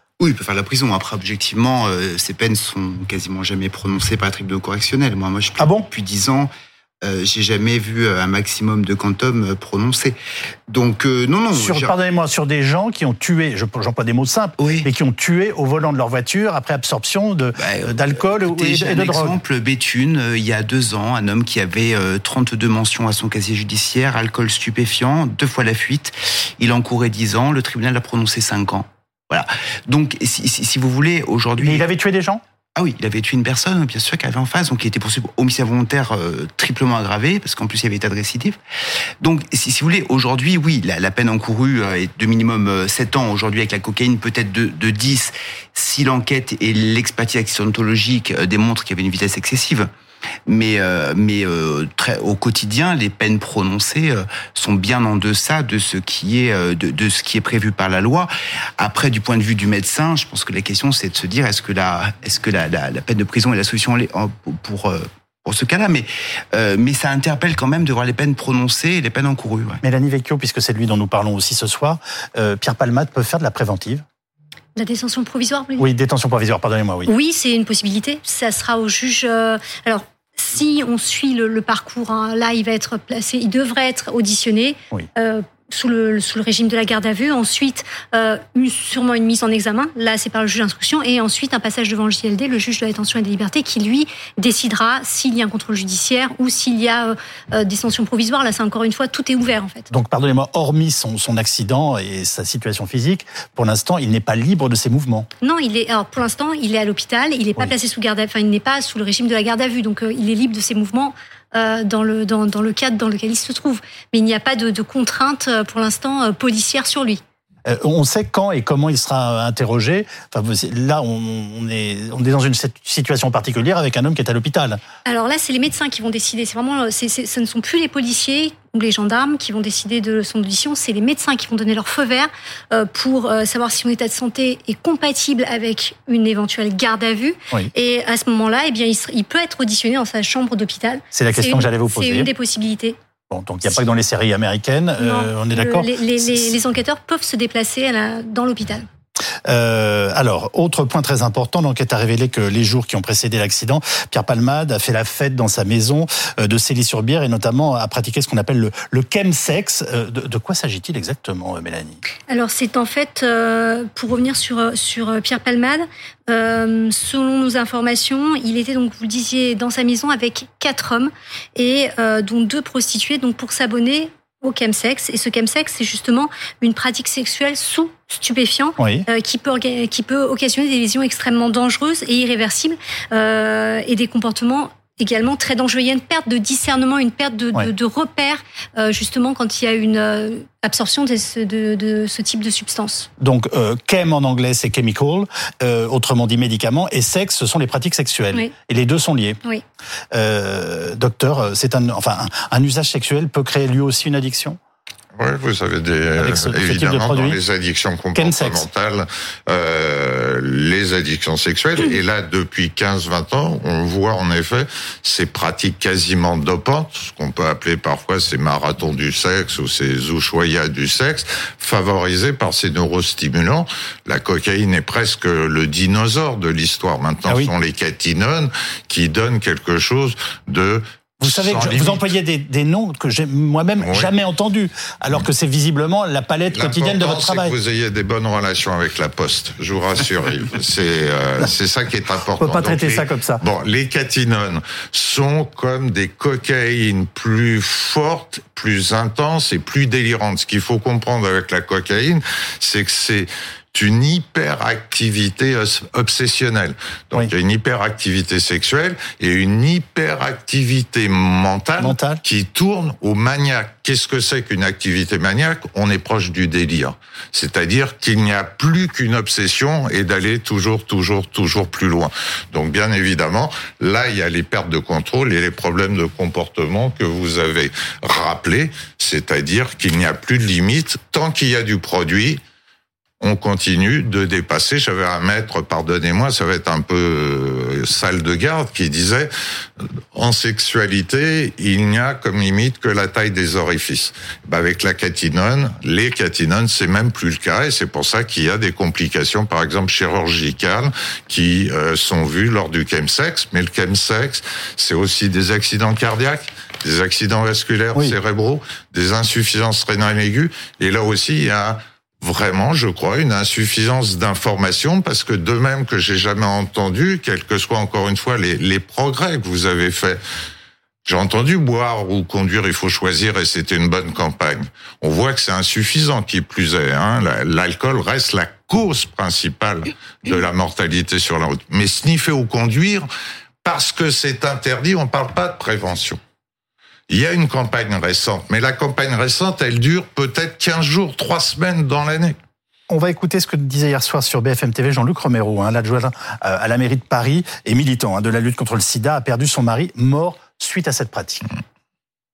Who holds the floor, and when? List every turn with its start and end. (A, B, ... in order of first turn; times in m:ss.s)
0:00.2-0:06.5 A
0:05.6-0:05.9 B
0:07.0-0:10.2 A
0:10.7-0:11.9 A
0:11.5-0:19.4 B
0:14.6-0:14.9 A
0:17.6-0:31.8 A
0:31.6-0:32.4 B
0:32.8-0:38.6 A
0:39.2-0:49.9 A
0:50.5-1:09.8 A
1:09.8-1:14.0 B
1:14.8-1:15.9 C
1:15.8-1:17.1 B
1:17.0-1:39.9 C
1:39.9-1:45.3 B
1:45.4-1:57.2 C
1:57.6-2:04.8 B
2:05.0-2:23.0 C
2:21.1-2:22.3 B
2:23.3-2:26.5 B
2:25.0-2:28.9 C
2:29.4-2:42.0 B
2:42.3-3:13.1 C
2:58.8-2:59.0 B
3:13.2-3:19.4 B
3:20.1-3:24.6 B
3:25.2-3:52.0 D
3:26.2-3:27.4 B
3:28.1-3:28.6 B
3:51.2-3:57.5 B
3:53.8-3:54.1 D
3:56.5-4:42.4 D
4:02.4-4:03.4 B
4:21.8-4:22.2 B
4:43.2-4:49.3 D
4:49.8-5:20.2 D
5:21.0-5:33.1 D
5:33.6-5:36.2 D
5:37.1-5:42.4 D
5:42.9-5:51.4 B